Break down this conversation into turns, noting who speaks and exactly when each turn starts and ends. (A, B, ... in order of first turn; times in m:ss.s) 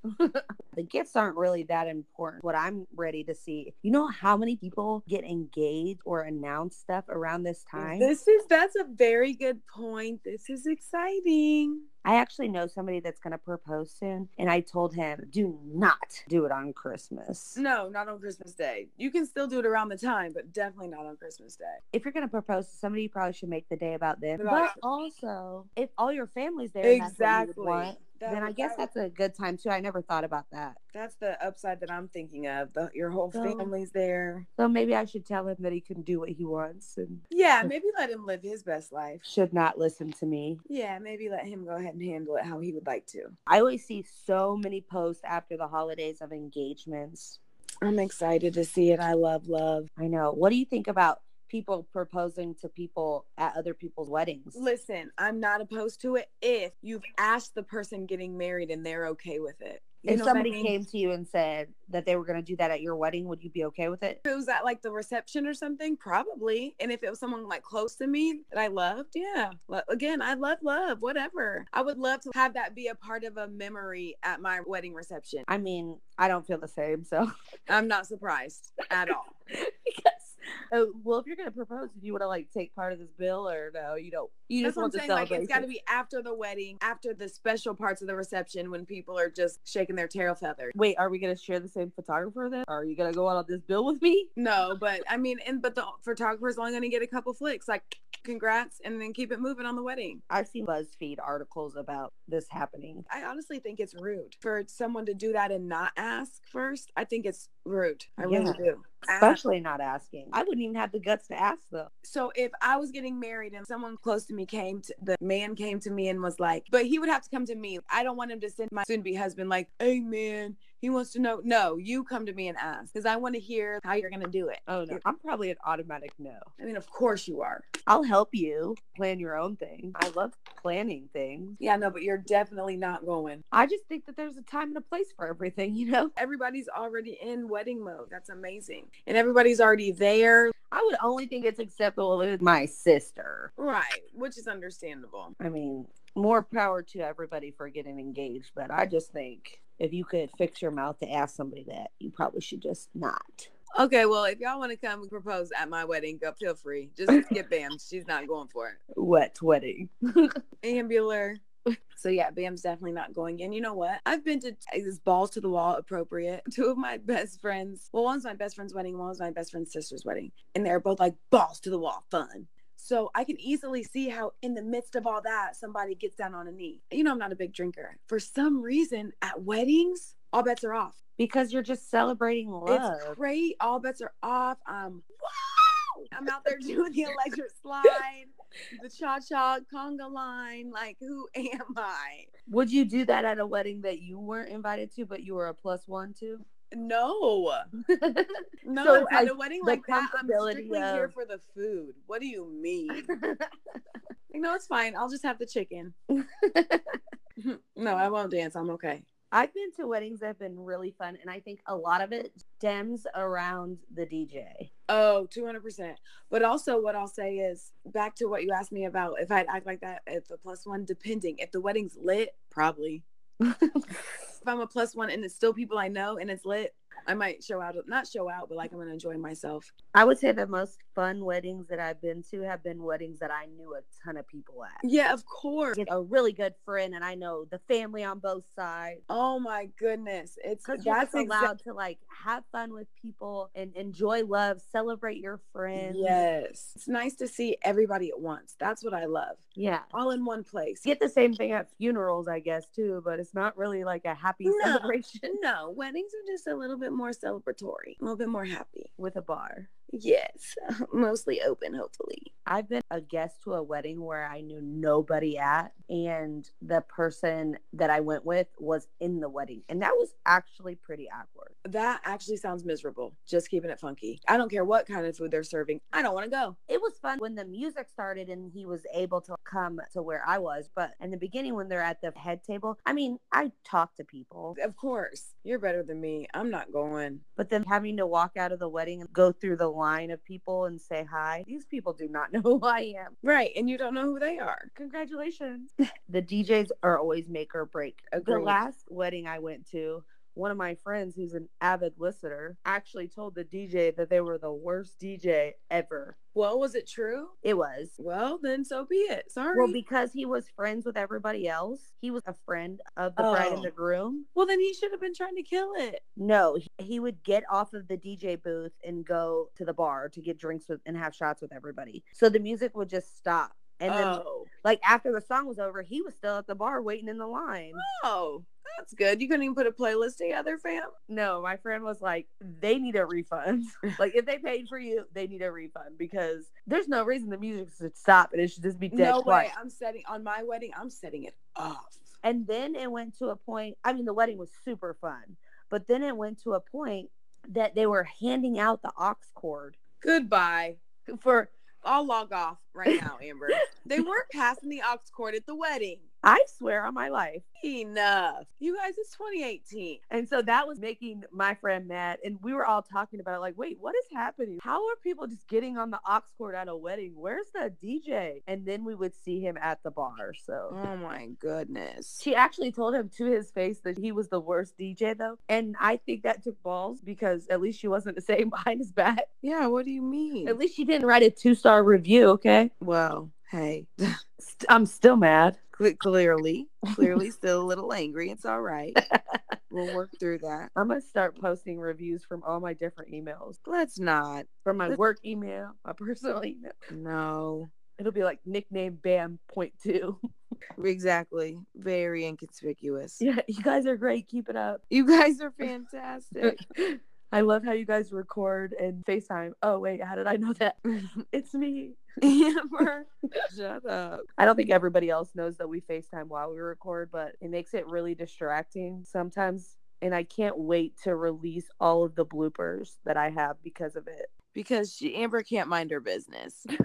0:00.2-0:08.1 A
0:07.8-0:11.8 B
0:12.0-0:17.6 A
0:17.6-0:21.8 B
0:21.9-0:30.8 A
0:24.4-0:24.8 B
0:26.8-0:28.9 B
0:30.9-0:34.5 B
0:33.3-0:33.7 A
0:34.6-0:37.7 A
0:37.3-0:39.2 B
0:39.2-0:40.6 A
0:40.7-0:43.3 B
0:43.5-0:47.4 A
0:47.8-0:49.9 B
0:50.0-0:54.6 A
0:54.5-1:00.8 B
1:00.1-1:04.2 A
1:04.3-1:15.5 B
1:15.5-1:17.3 A
1:17.7-1:19.3 B
1:19.5-1:25.7 A
1:24.6-1:30.7 B
1:30.7-1:34.3 A
1:34.4-1:40.2 B
1:40.3-1:43.1 A
1:43.1-1:49.4 B
1:48.2-1:51.9 A
1:52.0-2:05.0 B
2:04.7-2:06.5 A
2:06.6-2:07.7 B
2:07.9-2:11.6 A
2:11.6-2:13.4 B
2:13.5-2:16.1 A
2:16.2-2:20.5 B
2:20.7-2:23.5 A
2:23.6-2:25.3 B
2:25.4-2:33.5 A
2:33.8-2:38.8 B
2:39.0-2:40.3 A
2:40.6-2:41.4 B
2:42.0-3:01.0 B
3:01.2-3:03.2 A
3:02.7-3:12.3 B
3:12.5-3:16.4 A
3:16.7-3:17.7 B
3:17.9-3:21.1 A
3:18.6-3:23.1 B
3:22.9-3:23.5 A
3:24.3-3:25.9 B
3:26.2-3:27.0 A
3:27.4-3:29.0 B
3:29.3-3:34.7 A
3:34.9-3:43.0 B
3:43.4-3:44.0 A
3:44.4-3:49.7 B
3:49.9-3:54.8 A
3:54.8-3:55.9 B
3:55.8-3:59.0 A
3:59.1-4:01.6 B
4:00.6-4:06.2 A
4:05.7-4:10.9 B
4:09.6-4:09.9 A
4:10.8-4:15.3 A
4:14.4-4:18.9 B
4:19.0-4:19.7 A
4:19.9-4:22.3 B
4:22.5-4:31.5 A
4:31.6-4:36.6 B
4:36.7-4:44.6 A
4:44.6-4:47.2 B
4:47.4-4:53.1 A
4:53.2-4:54.7 B
4:54.8-5:06.2 A
4:58.1-4:58.6 B
5:06.4-5:07.3 B
5:07.4-5:07.9 A
5:08.0-5:09.8 B
5:09.5-5:14.3 A
5:13.2-5:13.7 B
5:14.4-5:16.0 B
5:16.2-5:27.8 A
5:23.8-5:24.5 B
5:27.8-5:30.9 B
5:31.1-5:39.5 A
5:38.9-5:42.1 B
5:42.2-5:49.8 A
5:50.0-5:50.8 B
5:51.1-5:51.5 A
5:51.4-5:56.1 B
5:56.2-5:57.5 A
5:57.6-6:00.0 B
6:00.1-6:10.8 A
6:10.7-6:12.2 B
6:12.2-6:19.3 A
6:19.4-6:20.6 B
6:20.4-6:22.7 A
6:22.8-6:24.0 B
6:24.4-6:25.6 A
6:25.7-6:29.0 B
6:29.0-6:29.6 A
6:29.7-6:30.7 B
6:30.7-6:33.6 A
6:33.6-6:35.0 B
6:34.6-6:36.8 A
6:36.9-6:37.7 B
6:38.0-6:40.2 A
6:40.8-6:43.2 B
6:43.2-6:44.8 A
6:44.9-6:46.6 B
6:46.4-6:52.0 A
6:52.2-6:53.1 B
6:53.5-7:04.3 A
7:04.5-7:06.7 B